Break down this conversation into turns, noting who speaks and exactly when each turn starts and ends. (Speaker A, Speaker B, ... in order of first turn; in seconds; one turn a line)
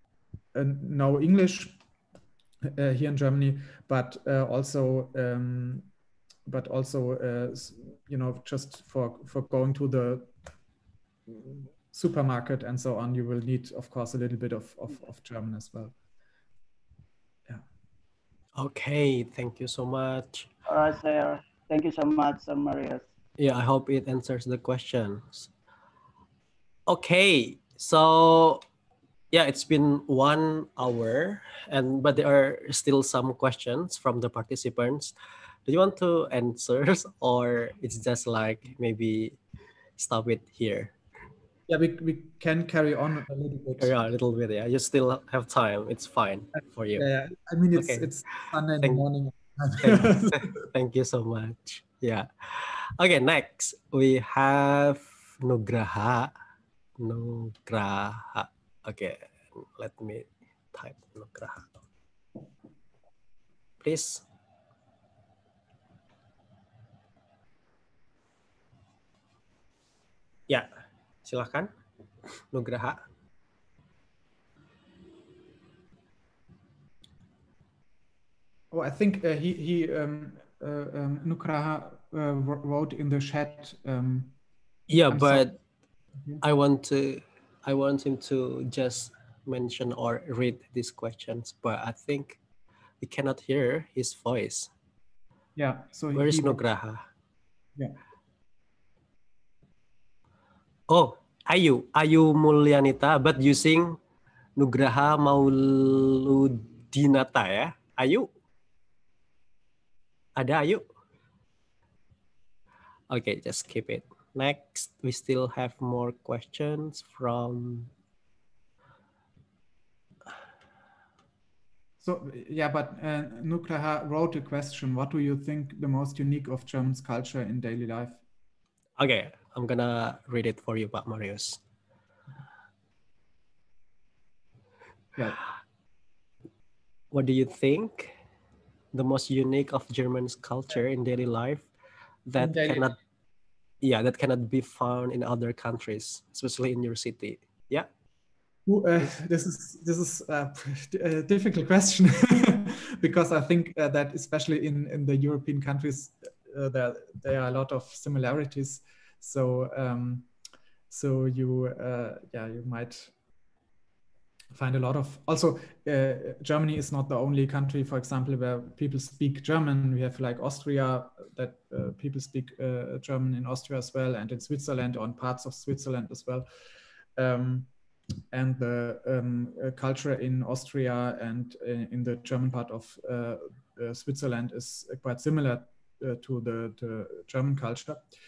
Speaker A: 0.5-1.8
Speaker A: 2.7-5.9
Speaker A: 6.5-10.3
Speaker A: 11.3-15.9
Speaker B: 18.6-20.5
Speaker C: 20.7-23.1
Speaker B: 23.4-25.5
Speaker B: 26.9-28.6
Speaker B: 29.3-35.1
Speaker B: 35.7-39.4
Speaker B: 40.0-40.9
Speaker A: 41.7-43.9
Speaker B: 43.8-47.1
Speaker A: 46.6-50.5
Speaker B: 47.8-48.1
Speaker B: 49.8-56.3
Speaker B: 57.0-61.8
Speaker B: 63.8-64.2
Speaker B: 71.2-71.7
Speaker B: 72.4-73.0
Speaker A: 78.7-84.3
Speaker B: 84.9-85.5
Speaker A: 85.1-85.6
Speaker B: 86.4-92.4
Speaker B: 93.0-94.7
Speaker A: 95.6-96.6
Speaker B: 96.1-97.0
Speaker B: 100.9-104.0
Speaker B: 104.6-108.3
Speaker B: 110.4-110.8
Speaker B: 113.1-117.9
Speaker A: 122.0-128.2
Speaker B: 129.0-131.6
Speaker B: 137.1-138.1
Speaker B: 138.9-141.7
Speaker B: 142.3-143.0
Speaker A: 142.4-142.9
Speaker B: 143.8-147.9
Speaker A: 148.7-160.3
Speaker A: 160.9-163.1
Speaker A: 164.6-176.5
Speaker A: 177.2-177.7
Speaker A: 178.3-188.0